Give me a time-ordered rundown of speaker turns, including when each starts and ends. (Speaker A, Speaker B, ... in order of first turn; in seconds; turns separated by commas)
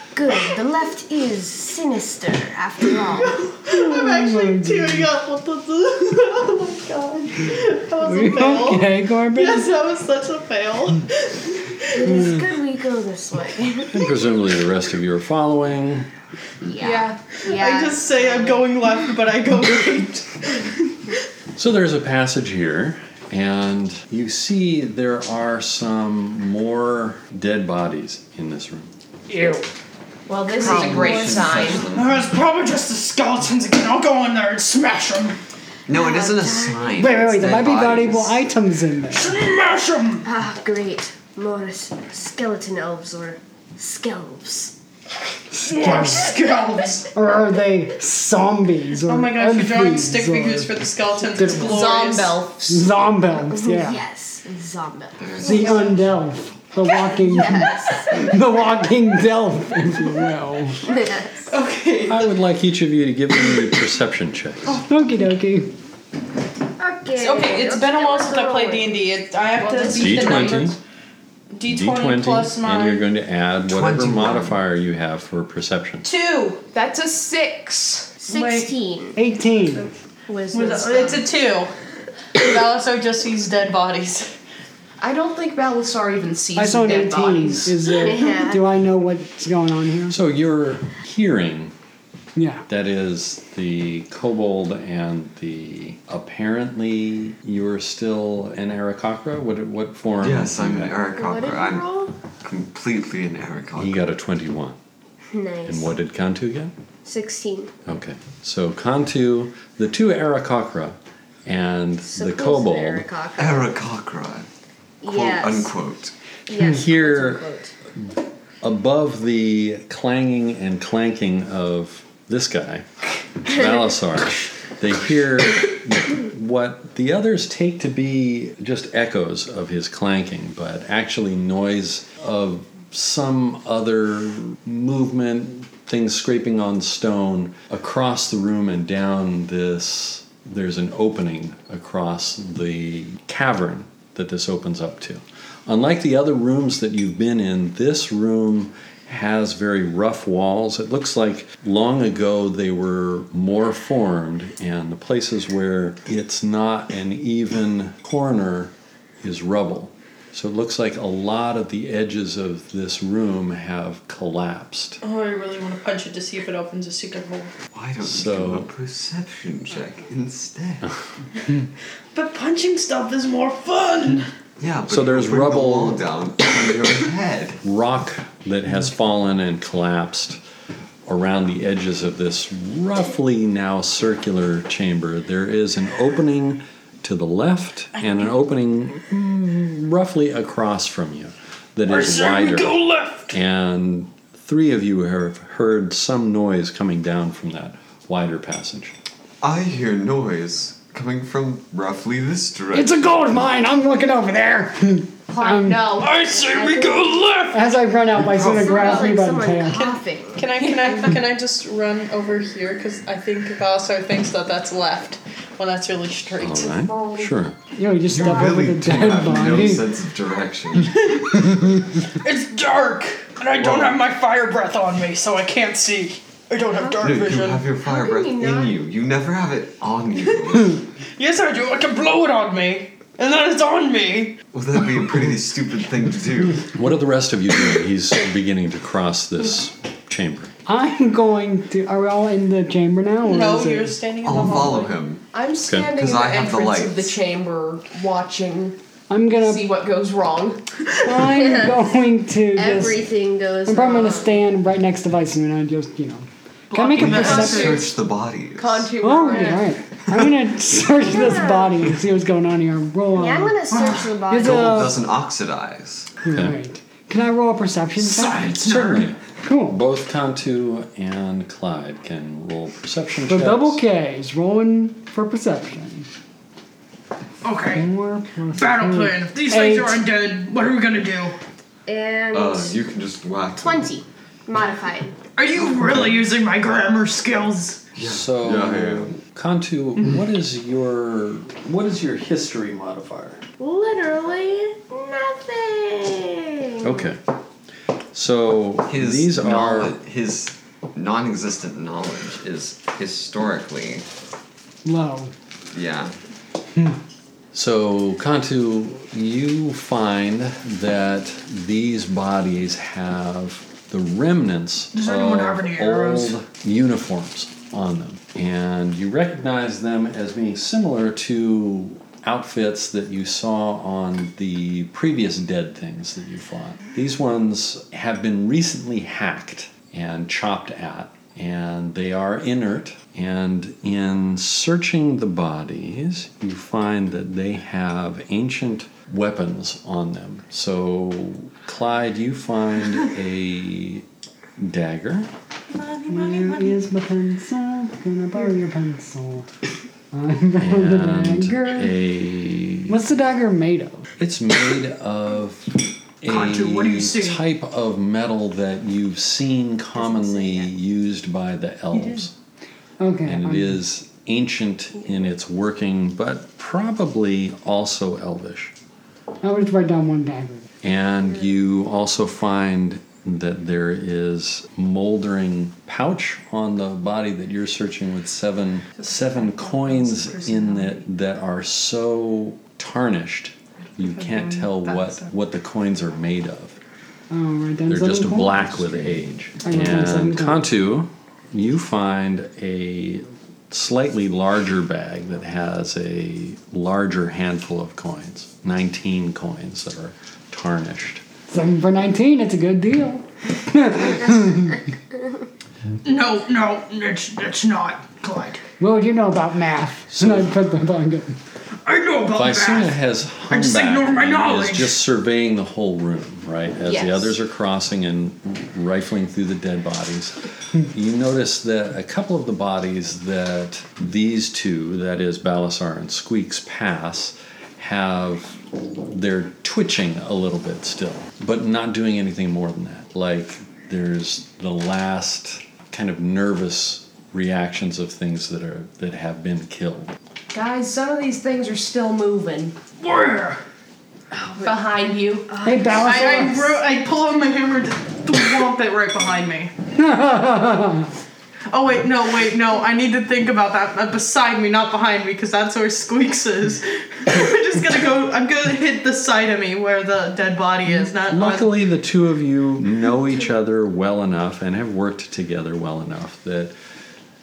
Speaker A: 0.1-3.5, Speaker B: 3.3-12.2, Speaker C: 3.7-5.1, Speaker C: 8.0-9.7, Speaker A: 11.9-14.1, Speaker C: 12.1-12.4, Speaker D: 13.9-16.1, Speaker A: 16.6-17.6, Speaker E: 16.7-18.6, Speaker B: 17.4-20.9, Speaker D: 21.6-28.9, Speaker C: 29.3-29.7, Speaker E: 30.3-31.9, Speaker F: 30.6-32.2, Speaker A: 30.6-31.8, Speaker B: 31.9-35.4, Speaker F: 35.9-38.4, Speaker A: 35.9-37.1, Speaker C: 37.0-39.4, Speaker B: 39.1-40.3, Speaker A: 40.2-44.8, Speaker C: 45.5-46.3, Speaker B: 45.6-47.1, Speaker C: 47.1-52.1, Speaker B: 49.0-52.4, Speaker E: 51.6-53.0, Speaker C: 52.7-54.0, Speaker A: 53.5-56.0, Speaker F: 55.2-55.8, Speaker C: 55.4-60.8, Speaker A: 57.1-58.3, Speaker A: 60.9-61.5, Speaker B: 61.5-62.3, Speaker D: 62.1-64.8, Speaker C: 64.7-65.8, Speaker A: 66.8-69.0, Speaker B: 67.2-70.8, Speaker E: 69.6-70.7, Speaker D: 69.9-70.8, Speaker B: 71.5-73.1, Speaker D: 71.7-76.1, Speaker F: 73.7-74.6, Speaker B: 76.0-76.6, Speaker E: 76.7-78.2, Speaker A: 78.2-79.2, Speaker B: 78.3-78.7, Speaker C: 79.2-79.9, Speaker A: 80.3-81.2, Speaker B: 80.5-81.7, Speaker B: 82.3-84.3, Speaker E: 85.0-87.8, Speaker C: 86.6-90.2, Speaker A: 87.9-88.6, Speaker D: 90.1-91.7, Speaker C: 92.3-92.7, Speaker D: 92.7-101.0, Speaker F: 100.2-104.0, Speaker A: 101.1-102.2, Speaker D: 103.8-104.8, Speaker A: 105.3-105.9, Speaker D: 105.7-106.7, Speaker A: 107.0-107.7, Speaker D: 107.9-113.1, Speaker A: 112.0-113.8, Speaker F: 113.4-114.5, Speaker A: 115.0-115.7, Speaker F: 115.0-116.1, Speaker A: 116.5-117.7, Speaker D: 116.6-117.5, Speaker D: 118.0-122.9, Speaker D: 123.4-165.0, Speaker B: 165.0-167.5, Speaker F: 167.7-170.9, Speaker D: 168.0-168.7, Speaker B: 172.1-174.3, Speaker F: 174.6-177.6, Speaker D: 174.9-176.1, Speaker D: 177.6-180.4, Speaker D: 181.1-198.9, Speaker B: 188.0-188.3, Speaker B: 191.9-193.4, Speaker F: 199.4-203.0, Speaker C: 202.7-205.9, Speaker E: 205.3-206.8, Speaker B: 206.0-207.6, Speaker A: 206.4-207.2, Speaker C: 207.5-209.9, Speaker F: 208.4-208.7, Speaker A: 208.4-210.4, Speaker B: 210.4-216.9, Speaker D: 216.4-217.6, Speaker A: 216.9-217.3, Speaker C: 217.8-219.9, Speaker F: 218.1-221.1, Speaker B: 220.8-227.7, Speaker F: 223.6-223.9, Speaker A: 226.7-227.1, Speaker F: 227.0-230.8, Speaker A: 227.8-228.8, Speaker B: 231.2-234.4, Speaker F: 234.5-236.7, Speaker D: 236.7-240.5, Speaker C: 240.7-244.0, Speaker B: 243.2-245.0, Speaker F: 244.2-245.2, Speaker E: 245.3-248.8, Speaker D: 245.7-245.9, Speaker F: 245.9-247.2, Speaker C: 249.1-249.7, Speaker E: 249.4-250.7, Speaker C: 251.0-253.1, Speaker A: 251.2-251.7, Speaker A: 252.5-254.3, Speaker C: 253.7-257.9, Speaker B: 256.7-257.8, Speaker F: 256.9-258.9, Speaker E: 257.5-257.8, Speaker E: 258.6-259.8, Speaker C: 259.0-263.6, Speaker A: 259.3-259.6, Speaker A: 261.0-261.8, Speaker A: 263.1-265.0, Speaker B: 263.7-264.1, Speaker C: 264.3-265.1, Speaker F: 264.4-266.1, Speaker C: 266.2-268.6, Speaker B: 268.0-269.1, Speaker D: 268.6-273.8, Speaker C: 269.4-269.8, Speaker C: 273.3-276.1, Speaker B: 277.4-277.9, Speaker C: 277.7-280.0, Speaker B: 278.6-281.4, Speaker A: 281.9-282.8, Speaker F: 282.3-283.9, Speaker A: 283.6-285.2, Speaker B: 285.4-287.8, Speaker F: 287.9-289.1, Speaker D: 288.0-293.4, Speaker A: 293.6-297.1, Speaker D: 296.8-297.2, Speaker D: 298.1-300.0, Speaker F: 298.9-304.0, Speaker C: 304.9-305.3, Speaker F: 305.7-306.1, Speaker D: 307.5-344.1, Speaker B: 314.9-316.4, Speaker D: 344.6-345.3, Speaker B: 345.7-346.8, Speaker C: 346.1-349.5, Speaker C: 350.1-351.9, Speaker D: 350.6-353.0, Speaker C: 352.9-354.1, Speaker D: 354.2-362.3, Speaker B: 356.3-357.4, Speaker A: 360.0-360.7, Speaker B: 361.9-362.3, Speaker C: 363.0-363.8, Speaker D: 363.2-368.7, Speaker C: 369.4-370.7, Speaker D: 370.8-386.8, Speaker B: 379.0-381.0, Speaker B: 384.0-385.3, Speaker C: 387.3-390.7, Speaker D: 387.9-401.2, Speaker C: 401.5-404.8, Speaker B: 406.0-408.6, Speaker C: 408.8-411.4, Speaker D: 410.1-410.6, Speaker B: 411.9-413.0, Speaker D: 412.3-440.1, Speaker B: 413.5-415.0, Speaker E: 416.9-417.4, Speaker E: 440.5-442.8, Speaker B: 443.0-443.6, Speaker A: 444.5-444.7, Speaker E: 444.6-445.5, Speaker A: 445.5-446.1, Speaker C: 445.6-446.8, Speaker B: 446.0-449.7, Speaker C: 449.9-451.1, Speaker B: 451.7-461.7, Speaker D: 461.2-466.7